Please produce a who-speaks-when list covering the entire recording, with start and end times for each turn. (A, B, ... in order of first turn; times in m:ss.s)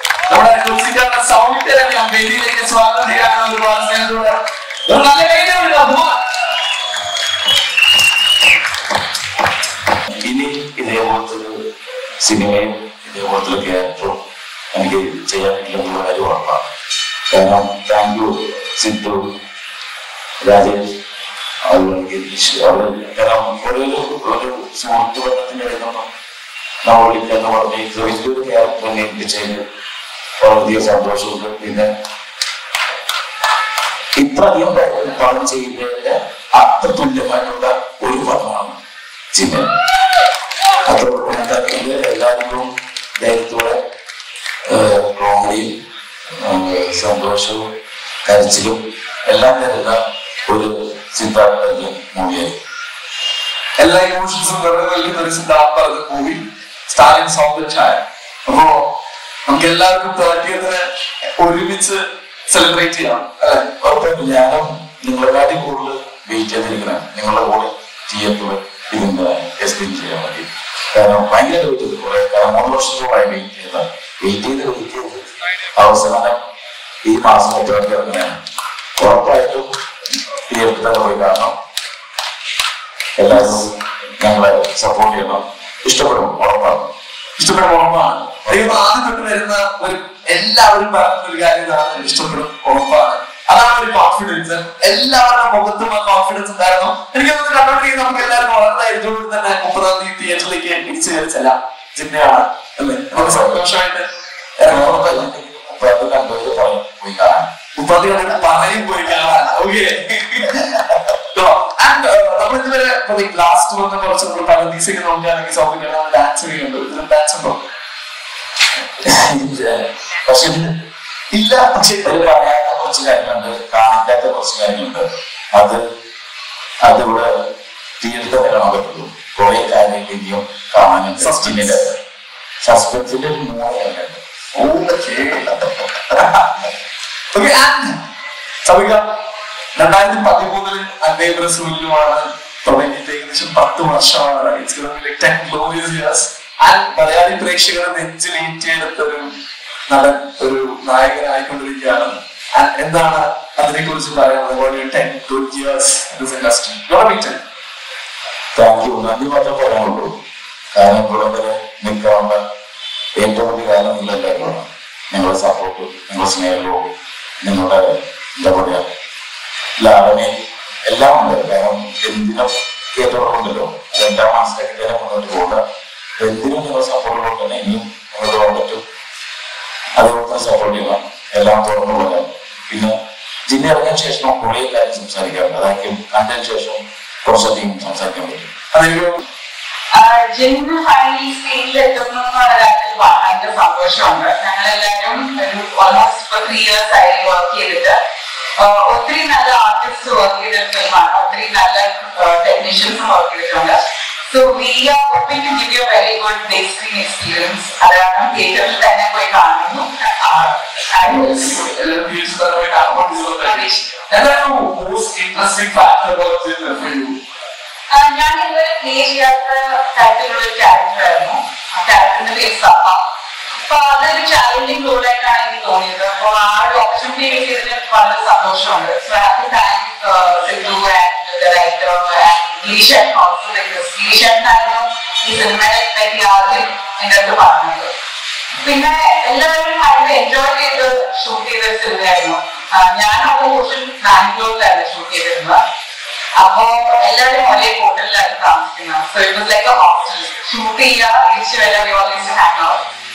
0:00.3-0:06.2 A
0:10.2-0:11.6 B
0:12.2-0:14.2 B
0:14.7-0:16.7 B
0:17.3-0:19.2 B
0:20.4-0:20.9 B
0:21.6-0:26.1 B
0:26.8-0:29.6 B
0:30.4-0:31.9 B
0:34.2-0:38.8 B
0:39.3-0:39.7 B
0:40.8-0:43.8 B
0:44.6-0:45.7 B
0:46.4-0:47.6 B
0:48.2-0:52.6 B
0:53.8-0:58.8 A
0:59.4-1:03.7 A
1:03.8-1:16.4 B
1:17.0-1:18.4 B
1:19.0-1:19.7 B
1:20.5-1:21.5 B
1:23.2-1:26.9 B
1:27.4-1:44.1 A
1:28.5-1:28.8 B
1:43.1-1:43.6 B
1:44.6-1:45.3 A
1:44.6-1:47.5 B
1:47.8-1:50.8 A
1:51.3-1:57.6 A
1:59.0-2:00.8 B
2:01.3-2:02.3 A
2:02.0-2:05.8 B
2:06.8-2:07.3 B
2:08.0-2:12.0 B
2:11.2-2:11.8 A
2:12.6-2:14.2 B
2:14.6-2:15.5 A
2:16.1-2:16.4 A
2:17.3-2:18.0 A
2:18.6-2:19.0 A
2:19.7-2:29.3 A
2:29.9-2:37.4 A
2:38.5-2:40.2 B
2:40.7-2:42.4 B
2:43.2-2:46.9 B
2:47.4-2:48.9 B
2:49.8-2:50.3 B
2:50.9-2:55.6 B
2:56.2-2:58.8 B
3:00.0-3:02.9 B
3:03.5-3:08.5 B
3:08.7-3:09.2 A
3:09.9-3:18.0 C
3:18.6-3:31.6 C
3:31.0-3:37.2 A
3:33.4-3:34.1 C
3:37.9-3:43.0 C
3:43.6-3:57.9 C
3:58.6-4:05.6 C
4:06.4-4:12.8 C